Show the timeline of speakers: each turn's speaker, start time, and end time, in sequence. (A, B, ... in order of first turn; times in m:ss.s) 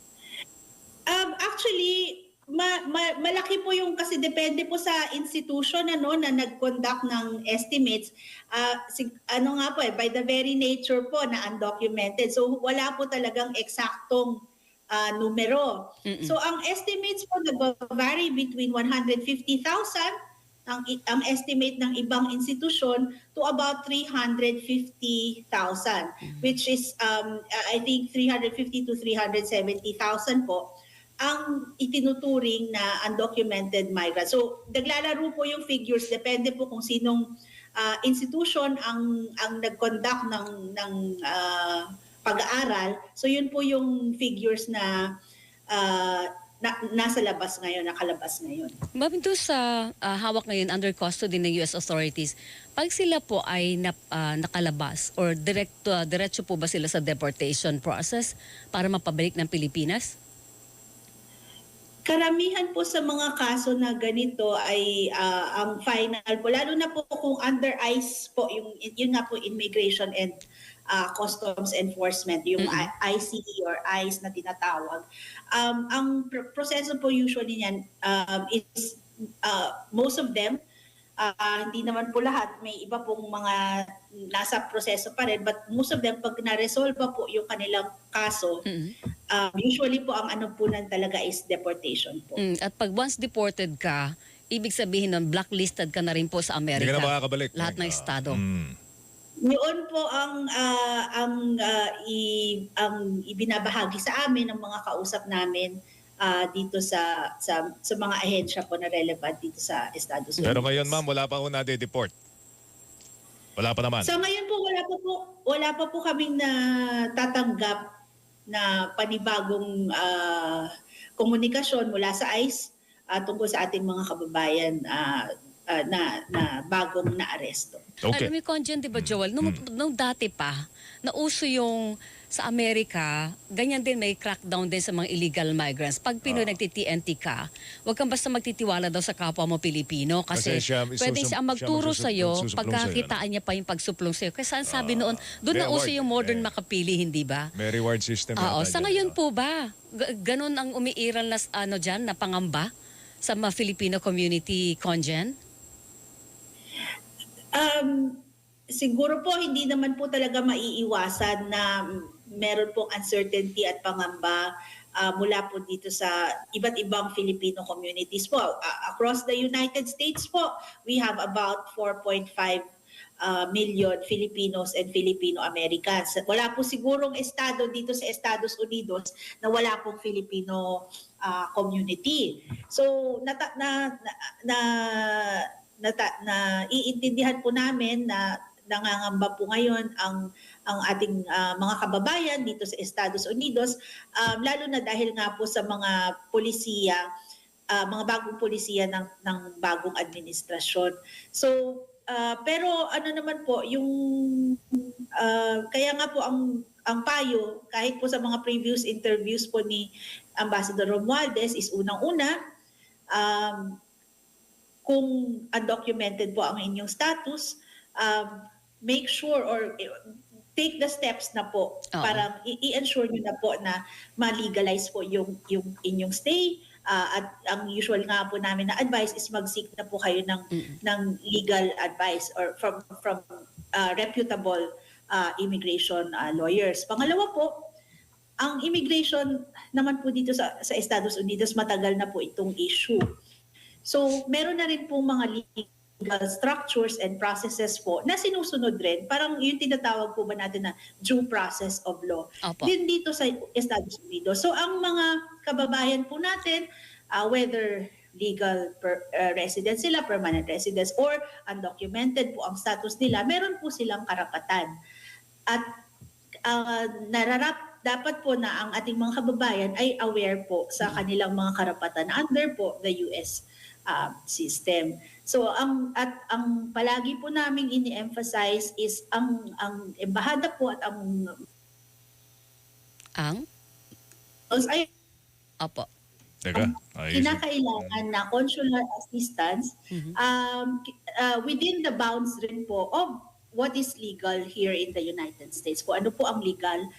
0:01.1-0:14.4 A
0:14.9-0:20.1 A
0:16.0-0:16.3 B
0:20.7-0:30.6 A
0:31.2-0:37.2 A
0:37.8-0:45.1 A
0:45.7-0:48.8 A
0:48.9-1:00.1 B
1:02.0-1:10.4 A
1:10.9-1:20.6 A
1:12.6-1:12.9 B
1:21.2-1:28.6 A
1:28.6-1:28.9 B
1:29.3-1:32.4 A
1:32.4-1:38.4 B
1:36.8-1:38.8 C
1:39.4-1:51.0 A
1:50.4-1:52.1 C
1:53.6-1:54.2 C
1:54.0-1:57.8 A
1:58.5-2:00.7 A
2:01.2-2:07.9 A
2:08.0-2:08.3 C
2:08.1-2:27.5 B
2:08.9-2:09.6 C
2:16.2-2:16.6 C
2:20.3-2:23.2 C
2:24.6-2:26.5 C
2:27.5-2:29.2 C
2:28.4-2:32.7 B
2:33.2-2:35.3 B
2:37.5-2:38.2 A
2:38.7-2:52.6 A
2:53.2-3:17.0 A
3:17.7-3:32.4 A
3:33.1-3:33.8 A
3:34.8-3:40.0 A
3:40.6-3:57.5 A
3:41.9-3:42.2 B
3:58.4-4:03.0 A
4:03.8-4:24.7 A
4:12.4-4:12.7 B
4:26.4-4:41.4 A
4:43.2-4:43.4 B
4:44.5-4:44.9 A
4:45.6-4:45.9 B
4:46.4-4:48.0 C
4:46.5-4:56.8 A